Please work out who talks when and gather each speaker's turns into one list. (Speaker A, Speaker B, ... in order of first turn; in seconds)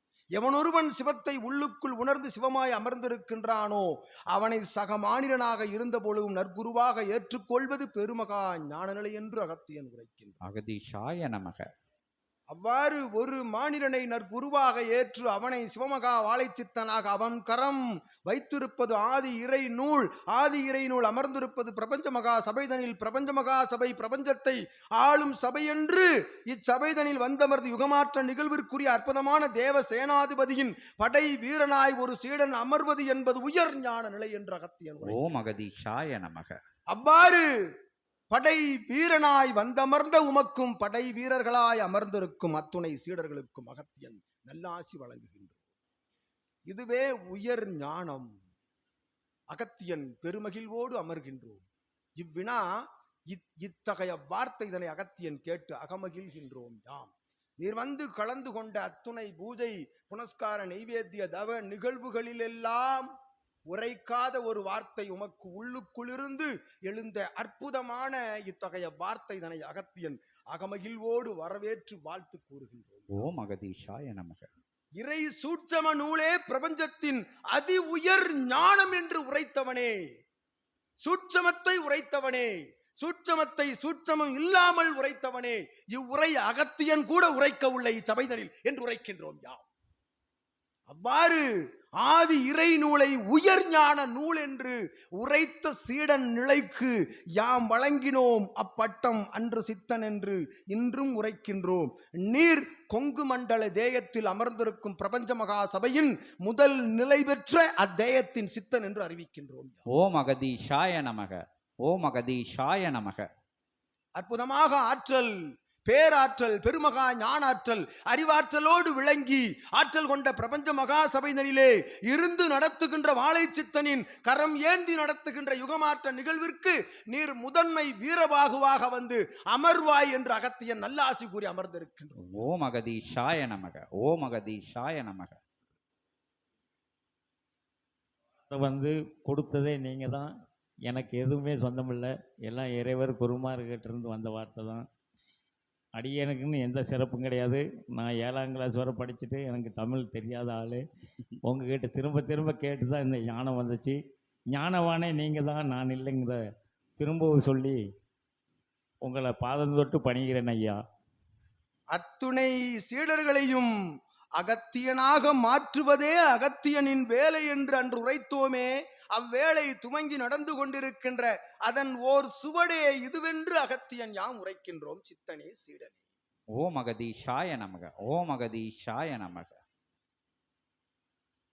Speaker A: 0.4-10.4, 12.5-35.3, 36.9-37.5, 38.3-45.6, 46.7-48.3, 49.5-51.6, 52.2-52.6, 53.3-63.1, 63.7-73.2, 75.0-80.0, 81.0-89.7, 90.9-91.4, 92.0-109.8, 114.2-132.3, 161.9-163.7, 164.4-176.0
Speaker B: 10.5-11.7, 35.0-36.6, 73.2-74.5, 109.9-113.3, 132.2-135.4, 176.6-179.6
Speaker C: 138.5-140.3, 140.9-144.8, 146.0-150.8, 151.4-154.0, 154.5-156.4, 157.0-157.8, 159.0-160.8